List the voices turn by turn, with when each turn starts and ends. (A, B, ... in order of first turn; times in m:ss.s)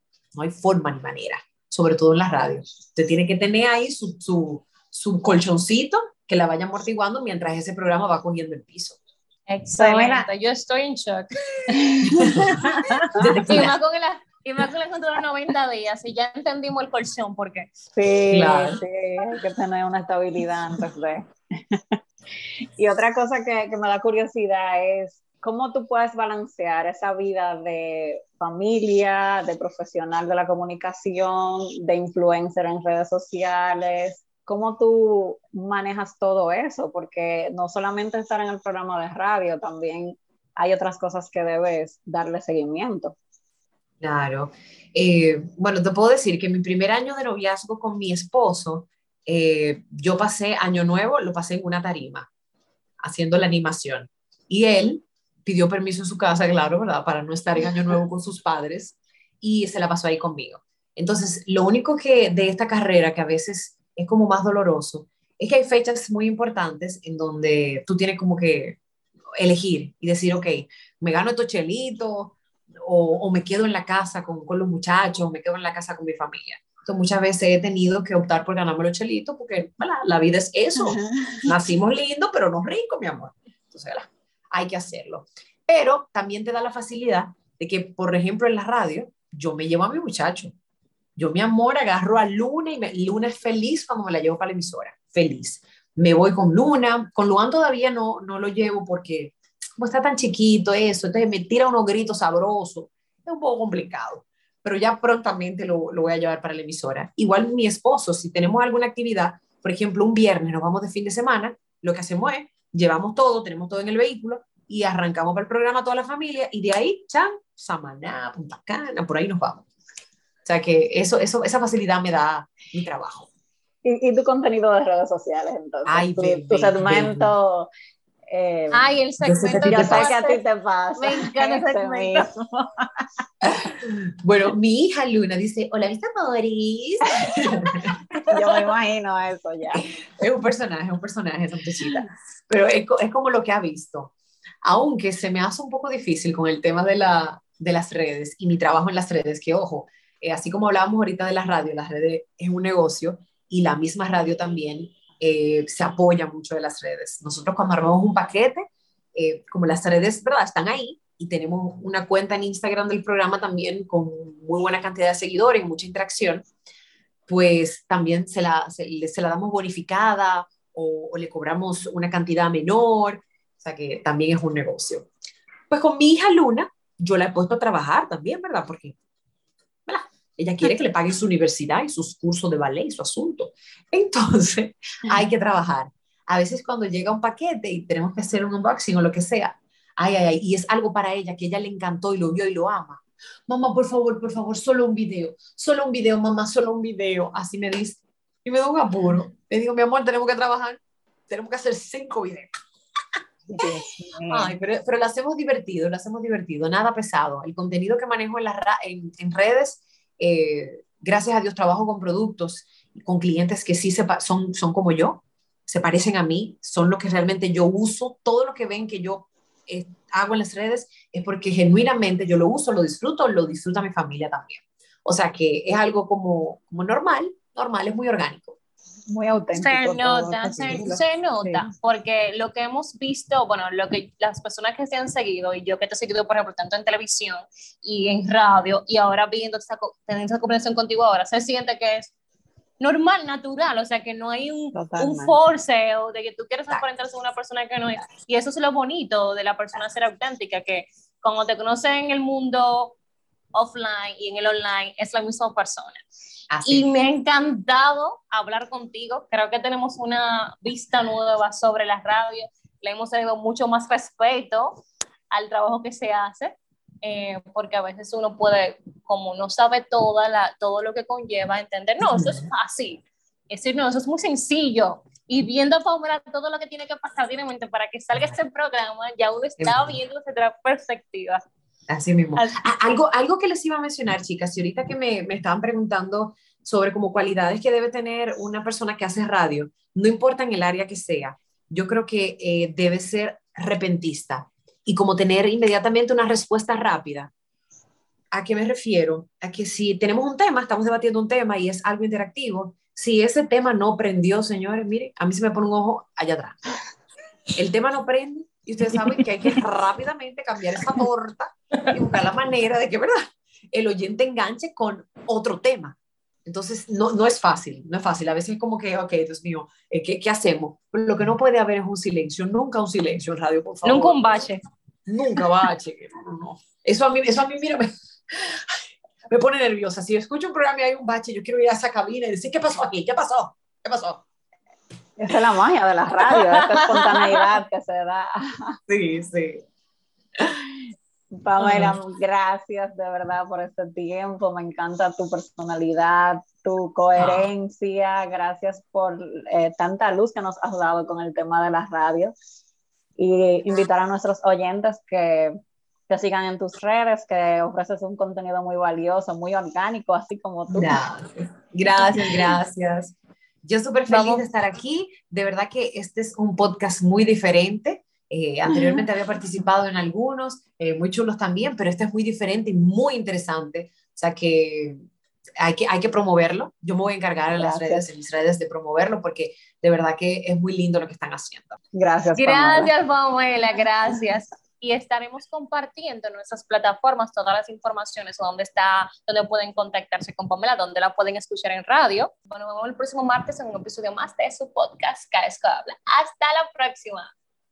0:00.3-0:09.0 A
0:09.5-0:11.7 B
0:09.7-0:10.3 C
0:11.7-0:13.4 C
0:12.2-0:12.5 A
0:13.1-0:13.7 A
0:13.4-0:17.8 B
0:18.0-0:22.0 C
0:18.3-0:18.8 A
0:22.8-0:43.2 C
0:44.0-0:52.3 A
0:53.0-1:08.8 A
1:09.4-1:30.5 A
1:20.8-1:21.5 C
1:31.2-1:59.6 A
2:00.4-2:03.3 A
2:03.8-2:07.7 C
2:05.8-2:07.3 A
2:08.3-2:08.9 C
2:08.7-2:10.4 B
2:09.2-2:10.1 A
2:09.6-2:13.0 C
2:11.0-2:12.3 B
2:13.4-2:18.0 A
2:18.2-2:19.8 C
2:19.7-2:46.5 A
2:47.3-2:55.1 A
2:55.7-2:59.0 A
2:59.8-3:22.5 A
3:23.5-3:24.5 C
3:24.3-3:48.6 A
3:49.1-3:51.7 C
3:49.5-4:02.1 B
4:02.8-4:13.0 B
4:04.7-4:05.4 C
4:13.5-4:16.0 B
4:16.5-4:16.9 A
4:16.6-4:41.4 B
4:32.0-4:32.5 A
4:39.6-4:40.0 A
4:41.9-4:57.3 A
4:42.3-4:42.6 B
4:58.3-5:06.6 A
5:07.5-5:24.4 A
5:23.8-5:24.6 B
5:25.1-5:34.2 A
5:35.2-5:38.8 C
5:37.2-5:37.4 B
5:38.9-5:39.6 A
5:41.4-5:52.3 C
5:41.6-5:41.9 A
5:47.2-5:47.5 A
5:53.2-5:55.6 C
5:56.1-6:01.0 C
6:00.7-6:15.0 A
6:04.1-6:04.4 B
6:15.6-6:21.8 A
6:17.6-6:18.0 C
6:21.9-6:22.9 C
6:22.4-6:37.3 B